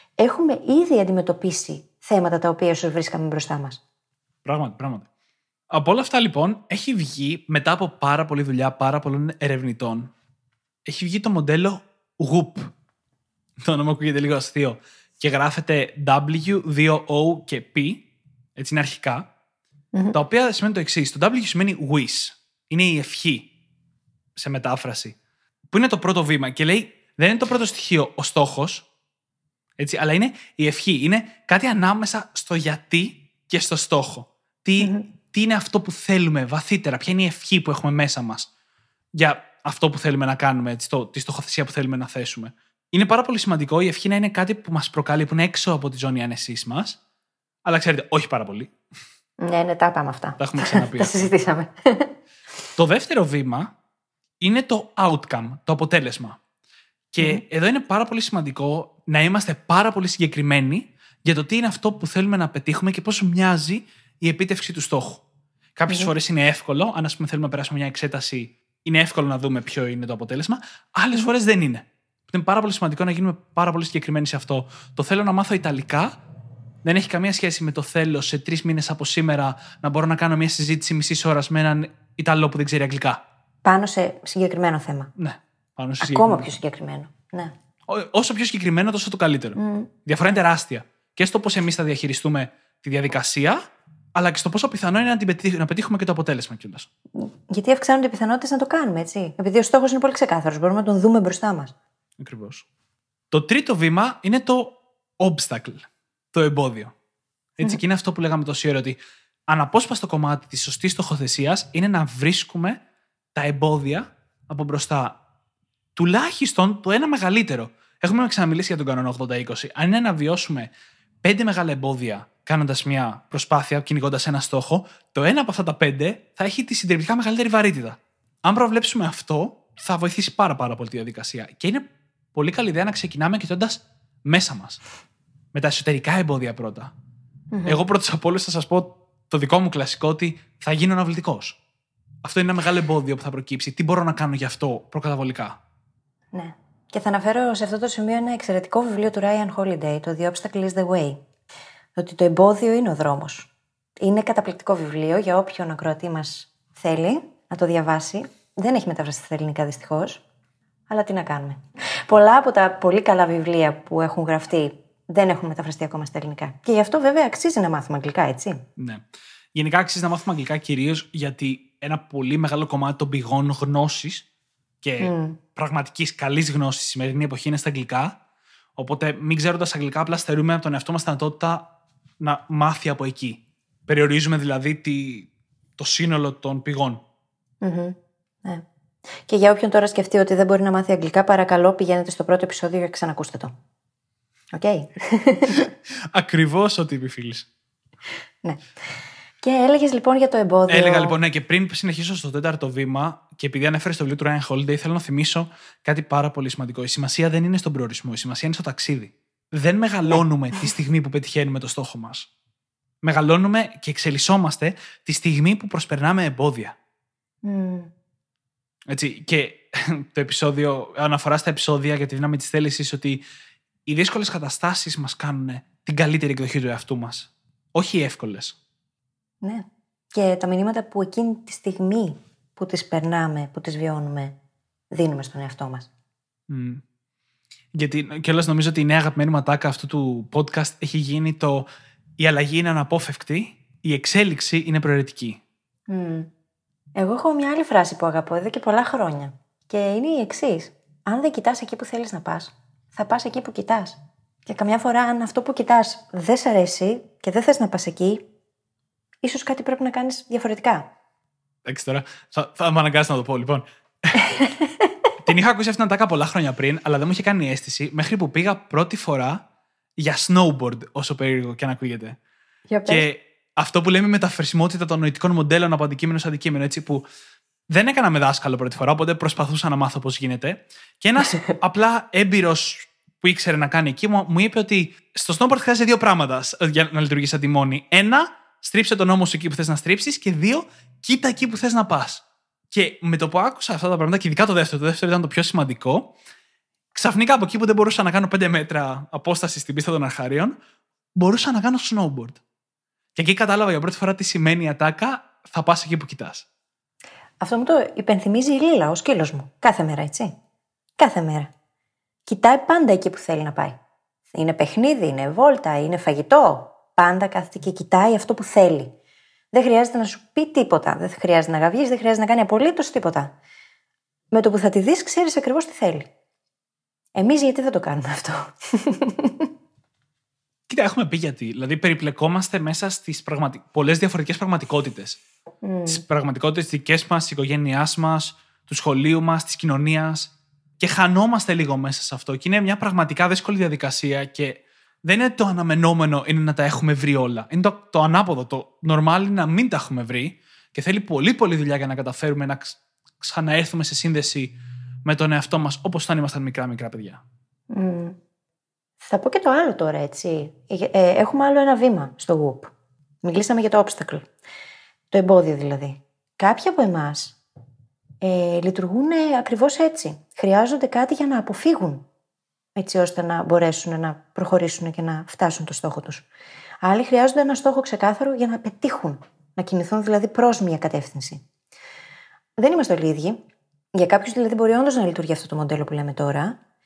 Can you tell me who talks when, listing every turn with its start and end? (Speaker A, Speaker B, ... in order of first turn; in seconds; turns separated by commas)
Speaker A: 0.2-3.8, Speaker B: 4.4-5.1, Speaker B: 5.7-10.1, Speaker B: 10.8-12.7, Speaker B: 13.6-18.1, Speaker B: 18.6-19.3, Speaker B: 20.1-23.5, Speaker B: 24.4-25.2, Speaker B: 25.7-28.9, Speaker B: 29.8-38.5, Speaker A: 34.8-35.0, Speaker B: 39.1-47.0, Speaker B: 47.6-48.7, Speaker A: 49.4-52.1, Speaker B: 50.4-51.3, Speaker B: 52.8-53.7, Speaker B: 54.4-56.4, Speaker B: 57.1-65.2, Speaker B: 65.8-76.2, Speaker B: 76.8-83.2, Speaker A: 83.6-85.1, Speaker B: 85.2-86.5, Speaker A: 86.0-87.5, Speaker B: 87.9-93.6, Speaker A: 89.6-89.9, Speaker B: 94.1-96.9, Speaker A: 97.2-101.7, Speaker B: 102.2-102.7, Speaker B: 103.3-106.9, Speaker B: 107.6-109.0, Speaker B: 109.5-112.8, Speaker B: 113.3-115.2, Speaker B: 116.0-120.7, Speaker B: 121.2-134.8, Speaker B: 135.5-136.9, Speaker A: 137.5-137.8, Speaker B: 137.7-141.6, Speaker B: 142.2-145.6, Speaker A: 146.3-151.2, Speaker A: 152.0-160.2, Speaker A: 160.9-168.6, Speaker B: 168.8-174.3, Speaker B: 174.8-178.2, Speaker A: 175.0-175.4, Speaker B: 178.8-181.7, Speaker B: 182.2-187.0, Speaker A: 187.6-188.6, Speaker A: 189.3-193.5, Speaker A: 194.5-195.7, Speaker B: 196.1-197.5, Speaker A: 199.4-201.2, Speaker B: 200.7-212.3, Speaker B: 213.0-216.8, Speaker A: 217.4-217.9, Speaker B: 218.9-223.2, Speaker B: 223.9-228.6, Speaker A: 229.4-234.3, Speaker A: 234.9-235.9, Speaker B: 236.5-236.8, Speaker B: 237.7-241.7, Speaker B: 242.2-245.4, Speaker A: 245.9-246.3, Speaker A: 247.0-258.2, Speaker A: 259.2-260.9, Speaker B: 261.6-264.2, Speaker A: 264.2-264.9, Speaker B: 265.2-269.4, Speaker B: 270.0-272.2, Speaker A: 272.7-273.1, Speaker B: 272.9-277.1, Speaker B: 277.7-296.1, Speaker A: 281.3-281.6, Speaker B: 296.9-300.6, Speaker B: 301.2-302.4, Speaker B: 303.2-306.5, Speaker A: 307.4-310.3, Speaker A: 311.0-311.5, Speaker A: 312.3-313.8, Speaker A: 314.3-318.9, Speaker A: 319.5-323.3, Speaker A: 324.3-326.1, Speaker A: 327.2-329.5, Speaker B: 330.7-335.2, Speaker A: 335.6-336.0, Speaker B: 335.9-357.2, Speaker A: 357.7-358.2, Speaker A: 359.0-362.7, Speaker A: 363.2-364.3, Speaker A: 365.1-367.4, Speaker A: 368.2-372.1, Speaker A: 372.8-376.3, Speaker A: 376.8-381.4, Speaker A: 382.6-383.4, Speaker A: 383.9-386.6